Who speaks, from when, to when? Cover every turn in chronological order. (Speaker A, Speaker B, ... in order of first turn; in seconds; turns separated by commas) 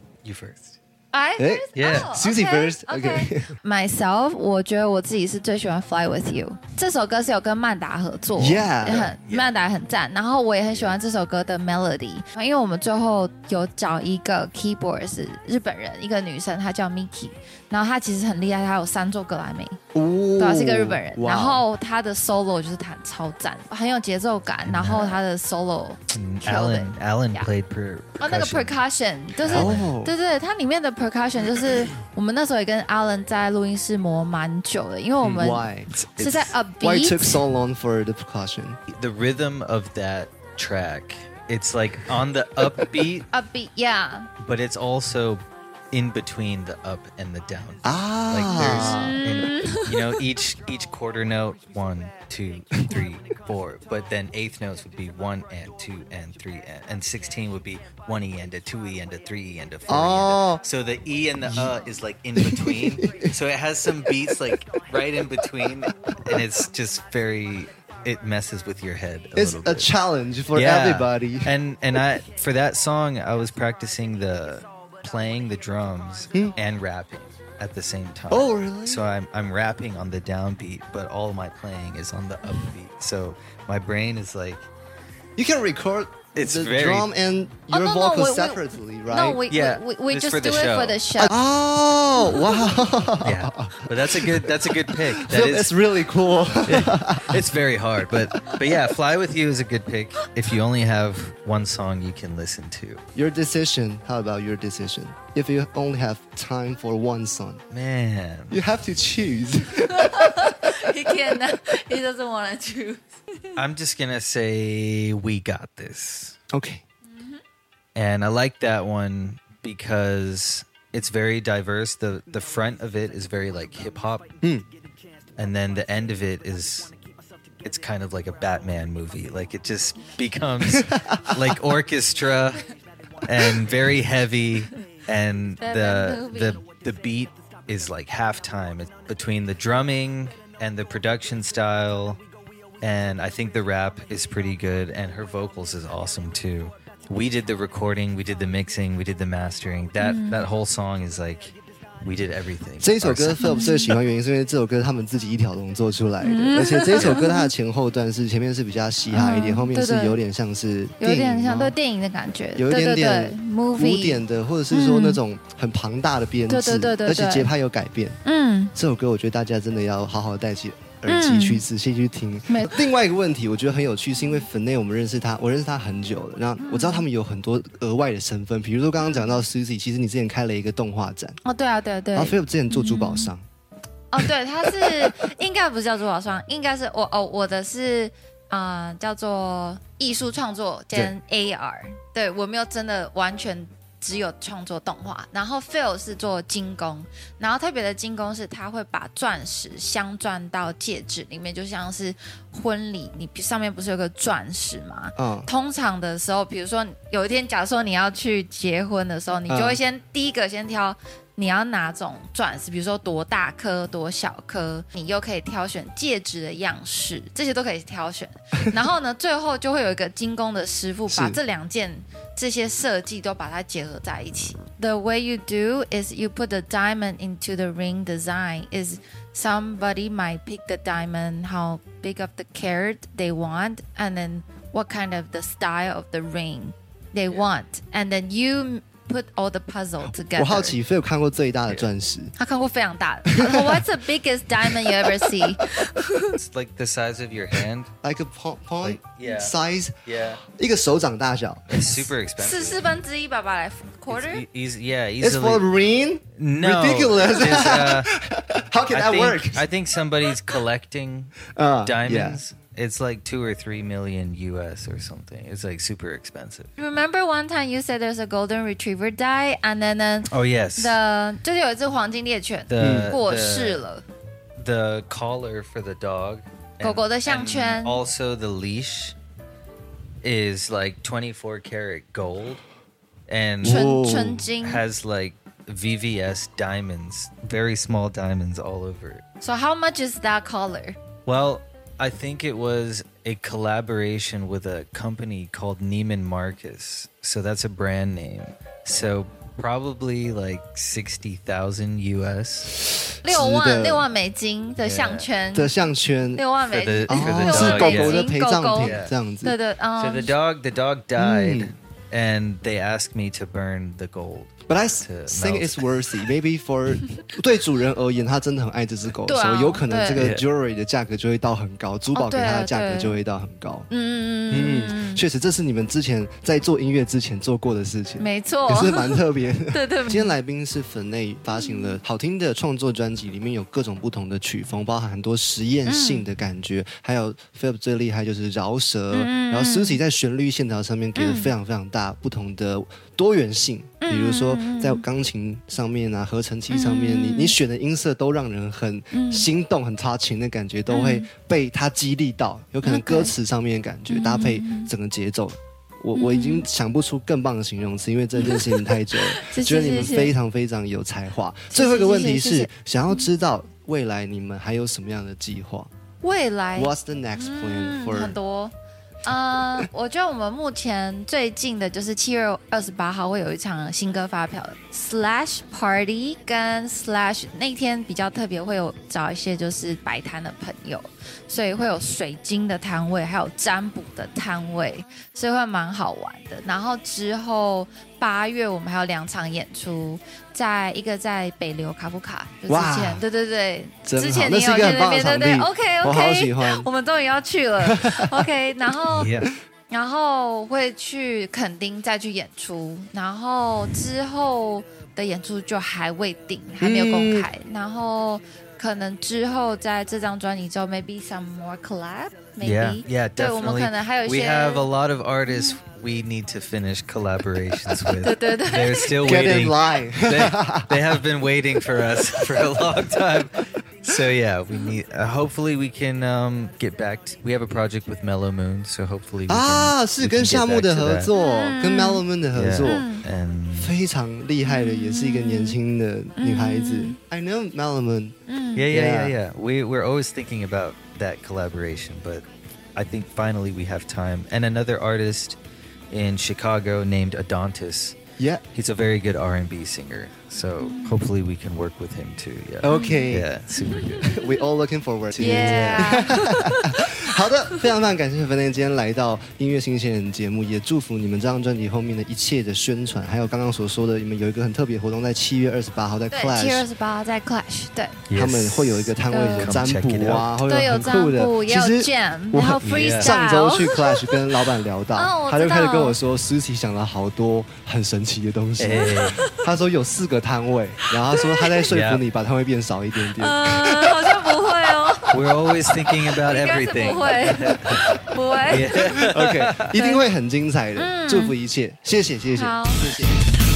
Speaker A: 0.2-0.8, Speaker B: 1.1-19.8, Speaker C: 1.4-3.6, Speaker A: 1.8-2.1, Speaker C: 8.4-9.2, Speaker A: 8.9-9.6, Speaker C: 19.9-21.6, Speaker B: 20.4-27.5, Speaker A: 24.7-25.2, Speaker A: 26.1-28.8, Speaker B: 28.2-37.4, Speaker A: 29.5-29.9, Speaker C: 29.5-30.1, Speaker C: 35.2-38.8, Speaker A: 38.9-43.3, Speaker B: 43.3-44.3, Speaker A: 44.4-45.4, Speaker A: 45.9-69.9, Speaker C: 47.8-49.2, Speaker B: 48.5-50.1, Speaker C: 59.9-60.6, Speaker C: 61.5-61.7, Speaker C: 62.4-63.3, Speaker C: 69.4-71.5, Speaker A: 70.5-84.7, Speaker C: 78.3-79.0, Speaker C: 85.4-89.4, Speaker A: 86.3-87.1, Speaker B: 87.7-91.3, Speaker A: 89.5-91.0, Speaker C: 91.2-97.4, Speaker B: 92.3-92.7, Speaker A: 93.2-95.9, Speaker A: 96.5-103.0, Speaker C: 103.2-107.6, Speaker A: 107.7-108.6, Speaker C: 108.5-110.7, Speaker B: 109.9-113.6, Speaker A: 113.6-116.4, Speaker C: 116.5-116.8, Speaker B: 117.1-117.4, Speaker A: 118.0-124.3, Speaker A: 125.4-126.9, Speaker A: 127.6-132.7, Speaker C: 130.8-131.6, Speaker A: 133.2-142.2, Speaker B: 135.6-136.6, Speaker A: 142.8-153.6, Speaker B: 150.0-150.4, Speaker C: 152.8-161.8, Speaker B: 153.4-154.0, Speaker B: 156.2-157.5, Speaker B: 159.1-160.2, Speaker B: 161.0-165.2, Speaker C: 162.6-168.2, Speaker B: 166.5-167.5, Speaker B: 168.2-168.7, Speaker C: 168.8-181.4, Speaker B: 171.1-171.6, Speaker B: 176.6-177.1, Speaker B: 179.0-179.4, Speaker B: 181.4-183.3, Speaker C: 182.1-183.5, Speaker B: 184.1-240.8, Speaker C: 184.8-185.1, Speaker C: 205.2-205.5, Speaker C: 209.5-209.8, Speaker C: 221.1-221.4, Speaker C: 240.2-242.3, Speaker B: 242.4-246.4, Speaker C: 243.3-243.9, Speaker C: 244.6-245.4, Speaker A: 246.3-247.9, Speaker C: 248.0-250.0, Speaker A: 248.8-249.5, Speaker A: 250.1-250.4, Speaker C: 250.5-252.1, Speaker A: 251.7-253.0, Speaker B: 252.4-254.4, Speaker A: 254.1-255.7, Speaker C: 255.2-259.6, Speaker A: 256.4-258.1, Speaker A: 258.9-266.7, Speaker C: 261.6-262.4, Speaker B: 266.8-274.1, Speaker A: 270.3-271.0, Speaker A: 272.7-273.8, Speaker C: 272.8-273.2, Speaker A: 274.6-279.2, Speaker B: 276.8-278.0, Speaker A: 280.2-282.6, Speaker A: 283.3-283.9, Speaker C: 283.6-284.5, Speaker B: 283.6-284.9, Speaker A: 284.6-289.2, Speaker B: 289.4-291.0, Speaker A: 291.3-302.7, Speaker C: 303.2-304.1, Speaker B: 303.2-305.8, Speaker A: 304.8-305.3, Speaker C: 305.5-306.4, Speaker B: 306.4-310.3, Speaker A: 306.7-308.3, Speaker C: 307.1-309.6, Speaker A: 308.8-309.1, Speaker A: 310.0-315.9, Speaker C: 311.2-311.7, Speaker C: 314.7-323.9, Speaker B: 319.3-320.3, Speaker A: 320.2-320.4, Speaker B: 322.1-323.2, Speaker B: 323.9-325.2, Speaker C: 324.5-365.9, Speaker B: 328.2-330.4, Speaker B: 331.5-332.0, Speaker B: 335.9-336.3, Speaker B: 339.1-340.0, Speaker B: 341.2-341.5, Speaker B: 344.0-345.0, Speaker B: 346.7-347.6, Speaker B: 349.1-349.5, Speaker B: 350.9-351.3, Speaker B: 352.8-353.4, Speaker B: 354.1-354.9, Speaker B: 356.1-356.7, Speaker B: 358.4-360.4, Speaker B: 361.7-363.3, Speaker B: 366.2-368.7, Speaker C: 366.8-368.4, Speaker B: 369.2-414.9, Speaker C: 392.7-393.2, Speaker C: 394.1-396.9, Speaker C: 397.8-398.3, Speaker A: 399.1-399.5, Speaker C: 406.8-407.5, Speaker A: 412.6-431.3, Speaker B: 418.2-419.1, Speaker C: 419.2-420.9, Speaker C: 429.5-433.1, Speaker B: 431.3-432.2, Speaker A: 432.5-433.9, Speaker B: 432.9-433.3, Speaker C: 433.8-438.4, Speaker B: 434.6-435.8, Speaker B: 436.4-437.2, Speaker B: 438.5-438.9, Speaker A: 438.8-442.4, Speaker C: 438.9-439.4, Speaker A: 443.0-445.6, Speaker A: 446.1-448.2, Speaker A: 448.7-454.4, Speaker B: 450.8-451.3, Speaker C: 452.8-453.5, Speaker B: 452.9-454.6, Speaker C: 454.2-466.9, Speaker B: 455.4-457.0, Speaker A: 455.4-456.4, Speaker B: 466.3-468.3, Speaker A: 468.3-470.5, Speaker C: 468.3-484.5, Speaker B: 469.3-469.9, Speaker B: 470.7-474.5, Speaker A: 472.9-473.3, Speaker B: 475.1-476.2, Speaker A: 478.8-479.4, Speaker B: 478.9-479.7, Speaker B: 481.4-481.7, Speaker A: 481.9-482.2, Speaker B: 483.4-489.1, Speaker A: 485.3-489.7, Speaker C: 488.9-493.4, Speaker B: 489.9-490.3, Speaker B: 491.0-491.5, Speaker B: 492.5-493.0